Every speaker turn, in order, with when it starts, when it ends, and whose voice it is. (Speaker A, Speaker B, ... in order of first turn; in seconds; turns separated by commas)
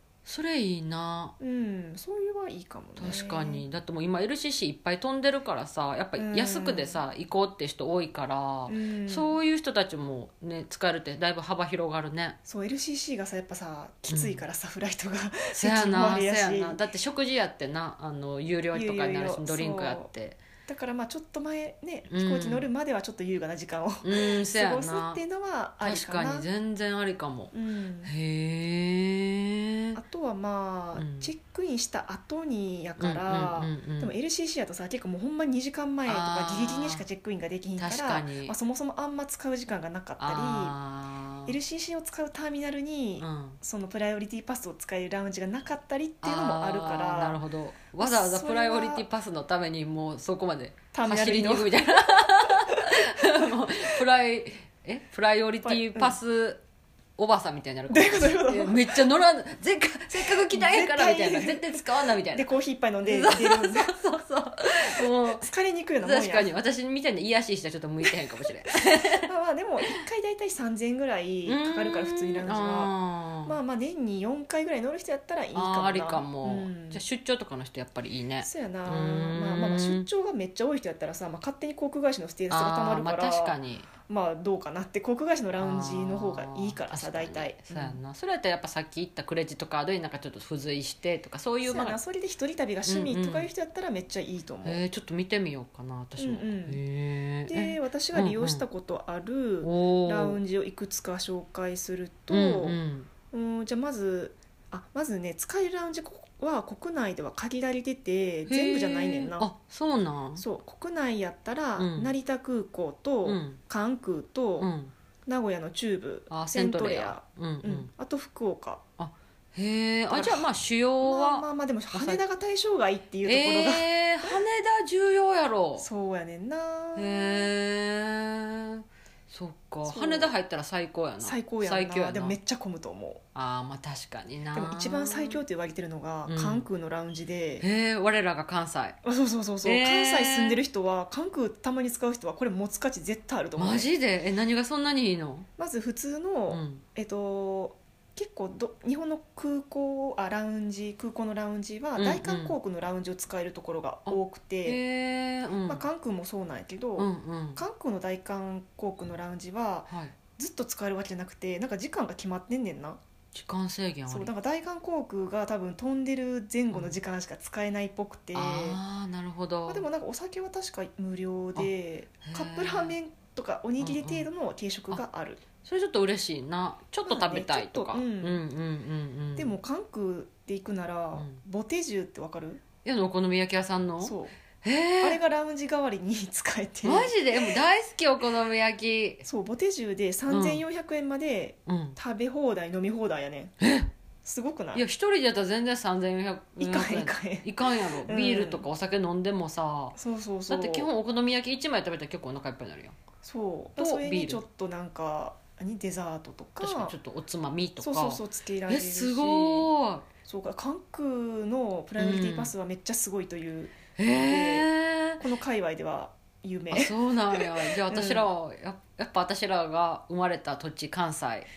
Speaker A: 0.2-1.4, Speaker B: 1.4-3.7, Speaker A: 3.0-12.4, Speaker B: 6.2-7.0, Speaker B: 8.7-9.4, Speaker B: 12.5-16.8, Speaker A: 14.1-14.4, Speaker A: 15.5-20.4, Speaker B: 18.7-20.1, Speaker B: 20.7-26.5, Speaker A: 22.1-22.7, Speaker A: 24.0-25.2, Speaker A: 25.8-30.0, Speaker B: 27.5-28.1, Speaker B: 30.0-40.8, Speaker A: 31.0-31.3, Speaker A: 33.0-34.2, Speaker A: 36.1-37.0, Speaker A: 37.8-38.5, Speaker A: 40.2-41.5, Speaker B: 41.5-47.4, Speaker A: 43.2-43.6, Speaker A: 46.2-56.6, Speaker B: 48.0-49.1, Speaker B: 50.9-51.8, Speaker B: 55.6-56.2, Speaker A: 57.2-62.5, Speaker B: 57.9-59.0, Speaker B: 60.2-63.9, Speaker A: 63.0-65.5, Speaker B: 65.0-66.6, Speaker A: 66.0-69.3, Speaker B: 69.3-72.9, Speaker A: 71.5-73.6, Speaker B: 73.5-77.0, Speaker A: 75.5-80.1, Speaker B: 78.4-83.6, Speaker A: 82.5-83.9, Speaker B: 84.1-88.0, Speaker A: 85.6-92.0, Speaker B: 91.7-94.8, Speaker A: 92.8-93.5, Speaker A: 94.6-98.6, Speaker B: 96.2-96.8, Speaker B: 97.5-102.8, Speaker A: 99.6-100.4, Speaker A: 102.3-103.1, Speaker B: 103.3-109.5, Speaker A: 108.5-110.4, Speaker B: 110.4-114.7, Speaker A: 111.8-112.2, Speaker A: 113.3-113.6, Speaker A: 114.6-114.9, Speaker B: 115.3-118.8, Speaker A: 116.3-117.9, Speaker A: 119.0-122.2, Speaker B: 120.1-120.5, Speaker B: 121.0-124.3, Speaker A: 123.2-125.9, Speaker B: 125.8-127.5, Speaker A: 127.0-132.4, Speaker B: 129.8-130.3, Speaker B: 131.2-133.2, Speaker A: 133.3-135.4, Speaker B: 134.5-137.7, Speaker A: 136.3-136.7, Speaker A: 137.6-139.0, Speaker B: 139.0-143.9, Speaker A: 139.6-140.6, Speaker A: 143.6-145.5, Speaker B: 145.6-154.8, Speaker A: 146.5-146.8, Speaker A: 152.0-152.6, Speaker A: 154.1-155.9, Speaker B: 155.7-163.0, Speaker A: 157.0-157.6, Speaker A: 159.9-160.2, Speaker A: 163.3-164.3, Speaker B: 164.1-168.8, Speaker A: 166.7-167.0, Speaker A: 168.3-169.9, Speaker B: 169.7-175.4, Speaker A: 172.2-173.0, Speaker A: 173.8-174.3, Speaker A: 175.6-179.6, Speaker B: 177.0-178.4, Speaker B: 179.4-182.6, Speaker A: 181.2-181.4, Speaker A: 182.8-185.2, Speaker B: 184.0-184.3, Speaker B: 185.0-187.6, Speaker A: 186.8-189.2, Speaker B: 189.2-193.5, Speaker A: 190.3-190.6, Speaker A: 191.7-192.0, Speaker A: 193.6-193.9, Speaker B: 194.2-194.8, Speaker A: 194.7-200.0, Speaker B: 196.6-198.7, Speaker B: 199.9-200.9, Speaker A: 200.5-203.0, Speaker B: 203.2-207.0, Speaker A: 203.8-204.4, Speaker A: 206.6-210.1, Speaker B: 207.8-209.7, Speaker B: 210.3-214.7, Speaker A: 212.0-212.5, Speaker A: 214.0-215.2, Speaker B: 215.2-218.3, Speaker A: 216.7-221.5